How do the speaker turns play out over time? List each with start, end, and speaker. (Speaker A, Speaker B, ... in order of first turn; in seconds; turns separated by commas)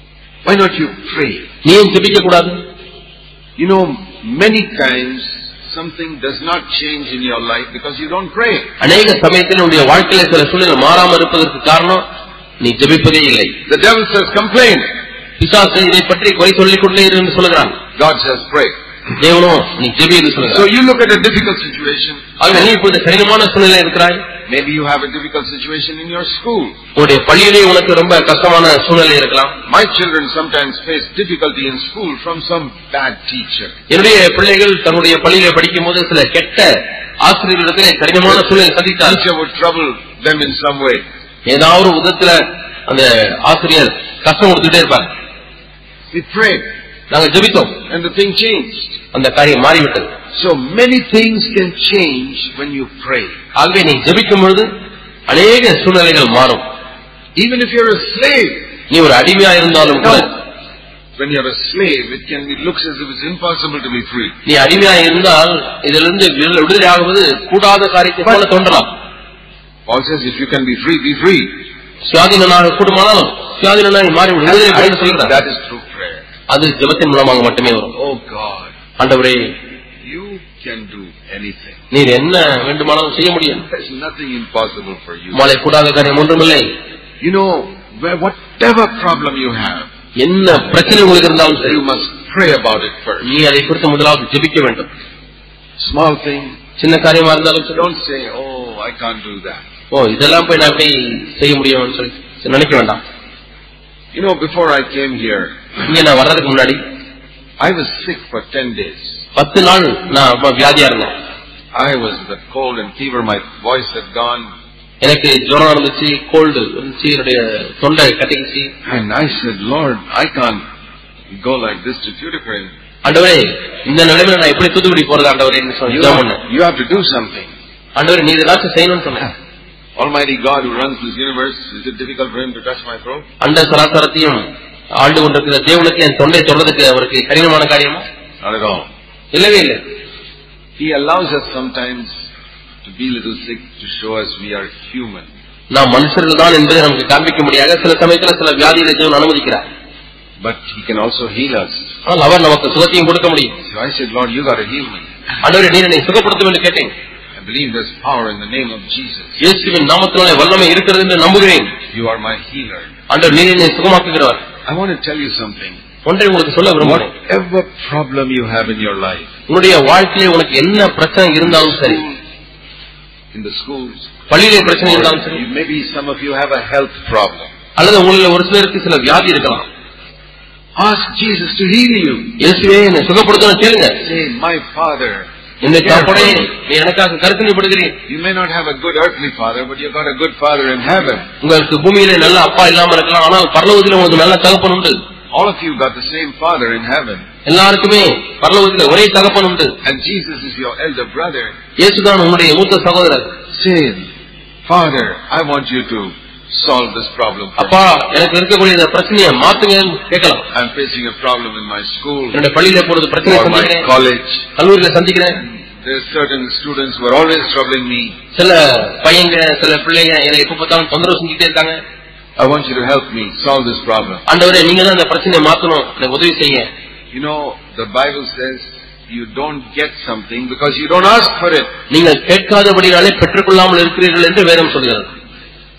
Speaker A: 0.5-1.5, Speaker B: 1.6-2.6, Speaker A: 3.6-8.7, Speaker B: 8.8-12.0, Speaker B: 12.6-13.6, Speaker A: 13.7-14.9, Speaker B: 15.4-17.8, Speaker A: 18.0-18.8, Speaker B: 19.2-20.6, Speaker A: 20.5-22.2, Speaker B: 22.4-24.2, Speaker A: 24.5-26.8, Speaker B: 26.9-29.6, Speaker A: 29.6-33.7, Speaker B: 33.9-39.2, Speaker A: 39.0-41.0, Speaker B: 41.5-45.1, Speaker A: 46.1-46.6, Speaker B: 47.1-47.8, Speaker A: 47.9-49.0, Speaker B: 49.1-50.1, Speaker A: 50.3-53.3, Speaker B: 53.5-54.7, Speaker B: 55.3-56.6, Speaker A: 57.4-58.7, Speaker B: 58.9-60.3, Speaker A: 60.0-60.4, Speaker A: 61.2-64.4, Speaker B: 64.5-68.9, Speaker A: 69.9-71.6, Speaker B: 72.1-75.4, Speaker A: 74.4-76.2, Speaker B: 76.5-78.0, Speaker A: 78.0-78.8, Speaker B: 79.0-79.6, Speaker A: 80.0-81.8, Speaker B: 81.9-83.7, Speaker A: 83.6-85.5, Speaker B: 85.3-86.7, Speaker A: 87.2-89.9, Speaker B: 90.2-91.8, Speaker A: 91.5-93.3, Speaker B: 93.2-94.9, Speaker A: 95.8-96.6, Speaker B: 96.8-97.9, Speaker A: 97.7-99.6, Speaker B: 99.9-103.0, Speaker A: 104.1-105.6, Speaker B: 105.9-106.8, Speaker A: 107.6-109.2, Speaker B: 109.3-111.1, Speaker A: 111.7-114.5, Speaker B: 115.0-118.7, Speaker A: 118.9-120.6, Speaker A: 121.3-122.7, Speaker B: 123.0-126.4, Speaker A: 125.9-127.5, Speaker B: 128.0-129.3, Speaker A: 130.0-133.3, Speaker B: 133.4-138.1, Speaker A: 138.4-138.9, Speaker B: 139.3-139.8, Speaker A: 140.8-142.2, Speaker A: 142.8-145.3, Speaker B: 145.7-149.7, Speaker A: 150.4-151.8, Speaker B: 152.1-153.6, Speaker A: 153.6-155.1, Speaker B: 155.4-156.9, Speaker A: 157.4-159.4, Speaker B: 159.4-161.8, Speaker A: 161.9-162.9, Speaker B: 163.1-164.4, Speaker A: 164.7-165.8, Speaker B: 166.0-167.1, Speaker A: 166.8-169.3, Speaker B: 169.5-172.0, Speaker A: 171.5-172.2, Speaker A: 173.3-177.5, Speaker B: 174.3-175.4, Speaker B: 177.8-179.7, Speaker A: 180.8-182.4, Speaker B: 182.4-184.0, Speaker A: 184.0-186.5, Speaker B: 185.6-188.0, Speaker A: 188.1-191.3, Speaker B: 191.4-195.0, Speaker A: 195.3-197.2, Speaker B: 197.5-199.8, Speaker A: 199.8-201.5, Speaker B: 201.8-203.3, Speaker A: 203.5-204.1, Speaker A: 204.7-207.7, Speaker B: 207.6-210.5, Speaker A: 210.5-212.4, Speaker B: 212.3-213.9, Speaker A: 213.2-214.4, Speaker B: 214.6-215.4, Speaker A: 215.3-218.2, Speaker B: 218.3-221.8, Speaker A: 222.4-224.2, Speaker B: 224.3-226.7, Speaker A: 227.1-231.7, Speaker B: 231.9-235.1